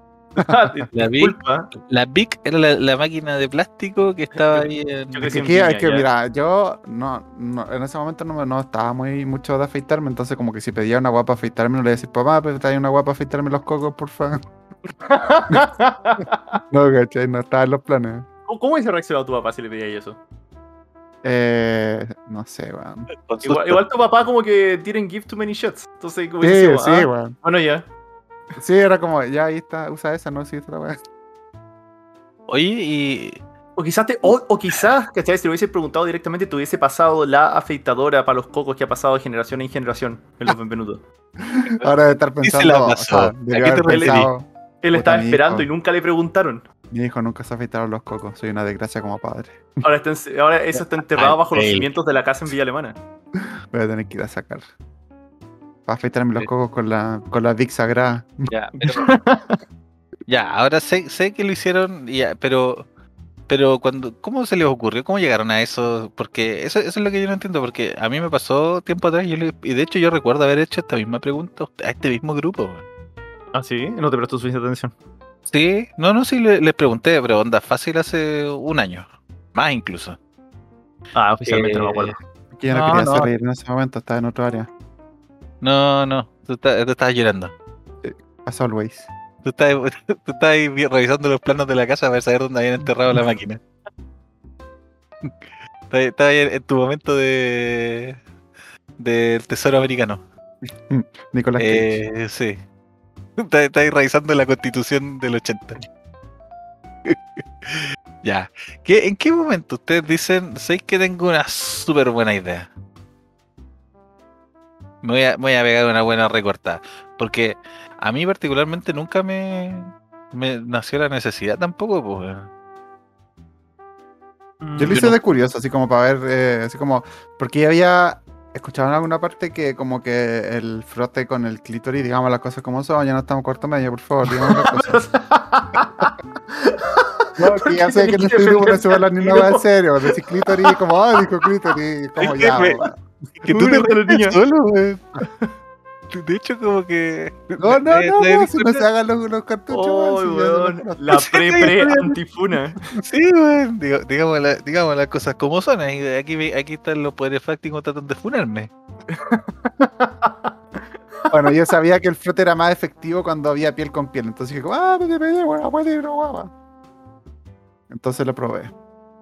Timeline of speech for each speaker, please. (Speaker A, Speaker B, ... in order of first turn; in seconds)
Speaker A: 0.4-1.7, 4.3-6.1, 15.1-16.6, 18.5-20.2, 23.4-27.9, 33.8-41.0, 43.9-44.2, 44.8-46.7, 49.8-53.0, 58.8-59.6, 73.5-74.9, 81.2-82.2, 124.6-125.2, 134.3-140.8, 142.2-142.9, 143.5-144.4, 149.7-152.8, 159.1-161.5
Speaker B: 0.9-5.4, 23.2-23.8, 32.5-33.4, 42.4-44.3, 51.1-51.9, 58.5-59.1, 60.3-62.9, 63.5-72.8, 75.5-80.2, 81.5-82.2, 82.7-83.3, 85.6-87.5, 89.4-93.6, 95.9-98.2, 99.0-100.2, 101.6-102.6, 103.4-105.8, 107.0-112.7, 115.0-122.5, 142.4-142.8, 143.4-145.0, 146.1-148.8, 151.1-152.0, 153.0-158.7
Speaker C: 5.3-14.4, 16.7-18.3, 21.2-23.1, 26.4-27.4, 28.6-31.0, 41.4-45.7, 46.9-49.8, 53.7-54.7, 55.9-58.5, 82.5-84.7, 88.0-89.1, 100.9-102.0, 124.8-135.1, 137.4-142.9, 147.6-151.1, 161.3-166.5, 167.9-168.7